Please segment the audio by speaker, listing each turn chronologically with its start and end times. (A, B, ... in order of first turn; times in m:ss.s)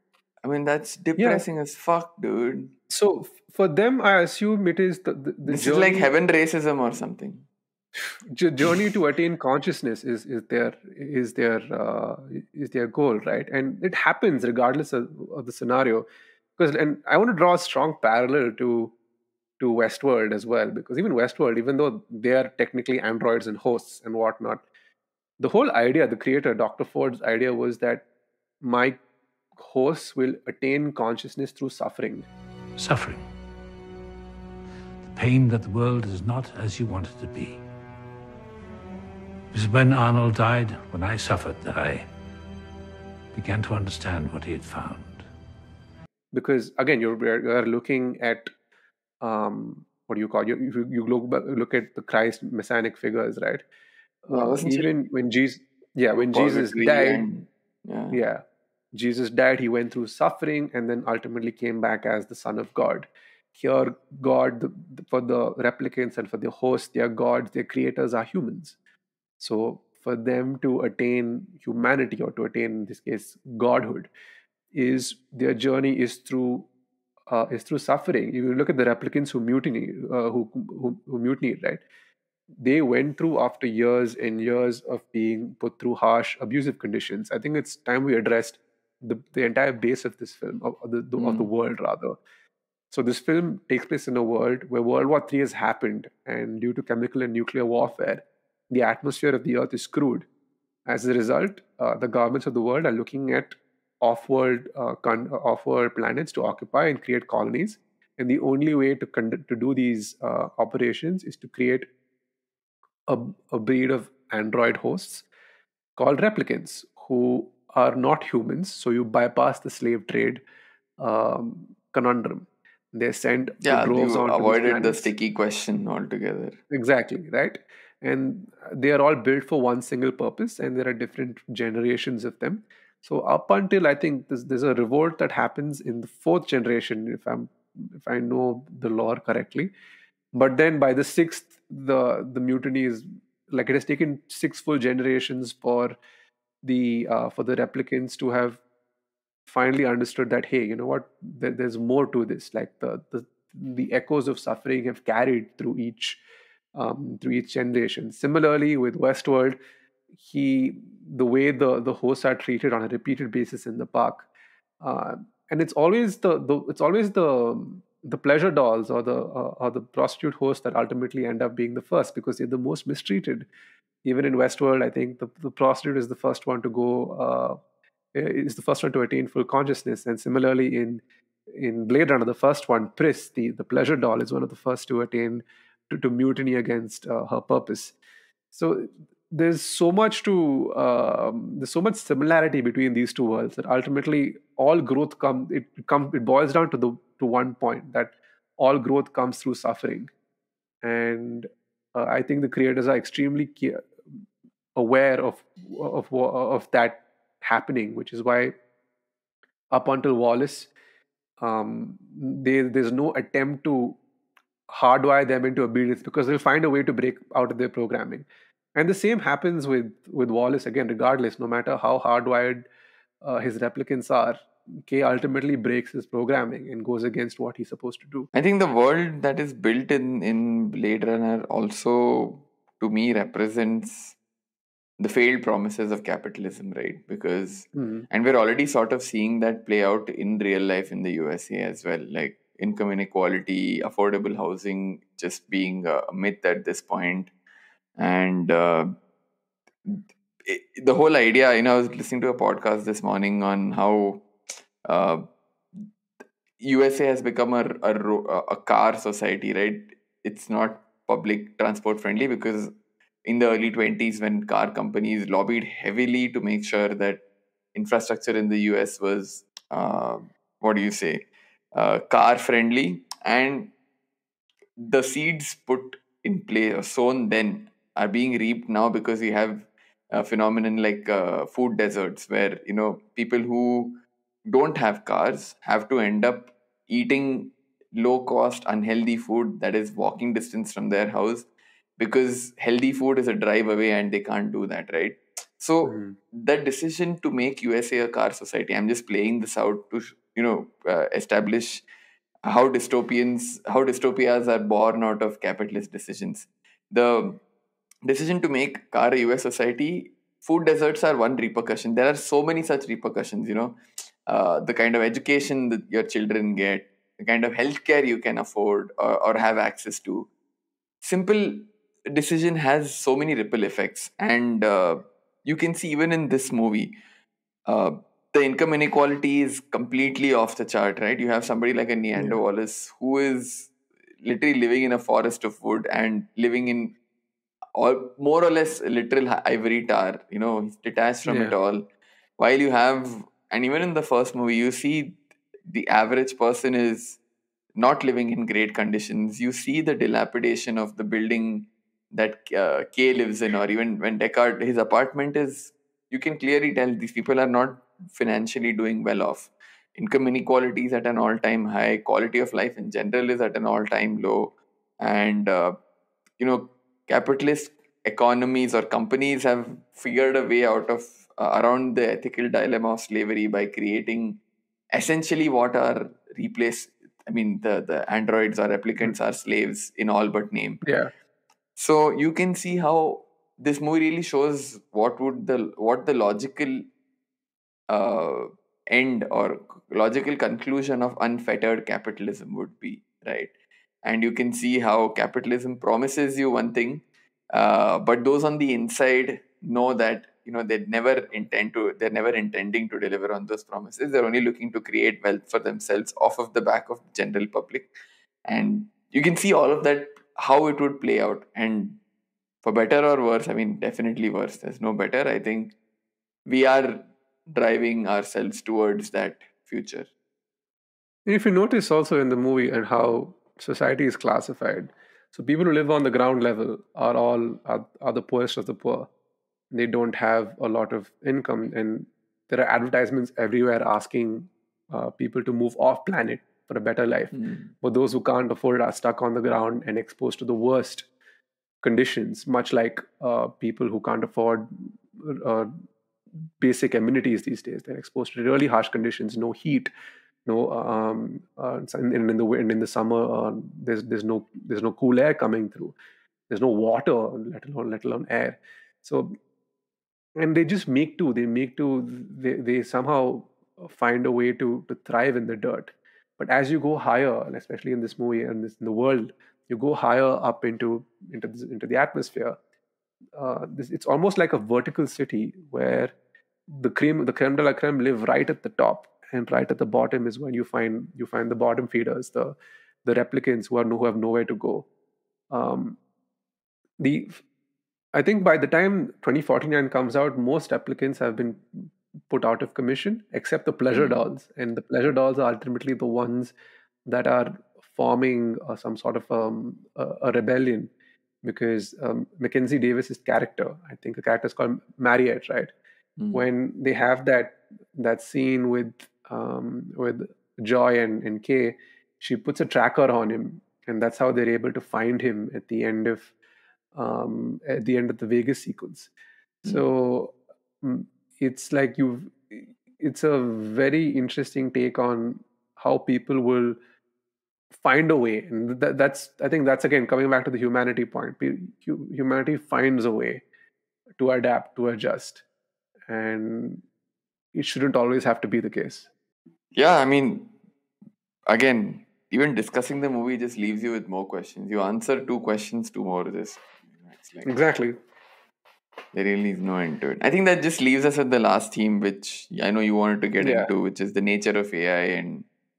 0:00.4-0:02.8 A
0:01.2-0:01.4 B
0:02.9-0:06.1 B
0:05.5-0:07.5 A
0:08.2-0:18.9 B
0:19.6-0:24.6 B
0:25.4-0:28.1 B
0:28.6-0:29.0 B
0:29.6-0:32.3 B
0:32.8-0:33.2 C
0:35.1-0:37.6 C
0:39.5-0:42.1 C
0:43.3-0:45.2 C
0:46.3-0:48.5 B
0:49.2-0:53.6 B
0:54.3-0:57.3 B
0:54.3-0:54.9 A
0:56.3-0:58.2 A
0:58.1-1:08.8 B
1:09.4-1:14.1 B
1:14.7-1:16.7 B
1:17.3-1:21.8 B
1:22.6-1:32.2 B
1:31.2-1:31.5 A
1:32.9-1:40.3 B
1:40.9-1:51.9 B
1:53.1-1:55.3 B
1:56.0-2:00.4 B
2:01.0-2:05.1 B
2:03.6-2:06.6 A
2:06.7-2:19.7 B
2:20.3-2:26.0 B
2:26.6-2:28.6 B
2:29.5-2:36.2 B
2:36.7-2:39.6 B
2:40.2-2:44.3 B
2:44.8-2:53.5 B
2:54.0-2:57.6 B
2:58.1-3:08.0 B
3:08.5-3:20.1 B
3:20.8-3:24.2 B
3:24.8-3:28.6 B
3:29.7-3:30.7 B
3:31.4-3:34.0 B
3:34.7-3:42.7 B
3:43.2-3:48.3 B
3:48.3-3:54.2 A
3:55.0-4:07.3 A
3:57.8-3:58.1 B
4:08.0-4:08.9 A
4:09.9-4:14.3 A
4:14.8-4:15.2 A
4:16.6-4:22.7 A
4:23.2-4:27.2 A
4:27.7-4:33.7 A
4:34.8-5:01.8 A
4:55.9-4:56.2 B
5:02.4-5:07.4 A
5:08.1-5:20.3 A
5:21.0-5:27.0 A
5:27.7-5:33.7 A
5:34.2-5:37.0 A
5:37.8-5:41.9 A
5:41.3-5:41.6 B
5:42.4-5:47.2 A
5:47.8-6:05.8 A
6:06.4-6:14.4 A
6:14.9-6:20.8 A
6:20.8-6:21.1 B
6:21.8-6:26.9 A
6:27.9-6:33.5 A
6:34.0-6:47.9 A
6:48.5-6:52.0 A
6:52.6-6:55.8 A
6:56.5-7:00.1 A
7:01.3-7:09.1 B
7:09.7-7:21.1 B
7:17.3-7:17.7 A
7:21.8-7:25.8 B
7:26.6-7:29.9 B
7:30.5-7:36.0 B
7:36.5-7:39.4 B
7:40.4-7:52.6 B
7:53.4-7:56.1 B
7:56.7-8:04.9 B
8:05.5-8:06.0 B
8:07.0-8:07.4 B
8:08.1-8:16.6 B
8:13.9-8:14.2 A
8:17.1-8:20.9 B
8:21.4-8:25.7 B
8:26.2-8:26.4 A
8:26.3-8:36.3 B
8:36.9-8:39.1 B
8:39.6-8:46.8 B
8:47.7-8:53.4 B
8:54.2-8:55.4 B
8:56.1-8:56.8 B
8:57.5-8:59.1 B
8:59.8-9:00.6 A
9:01.5-9:07.5 A
9:07.4-9:08.0 B
9:09.1-9:15.5 A
9:13.4-9:13.7 B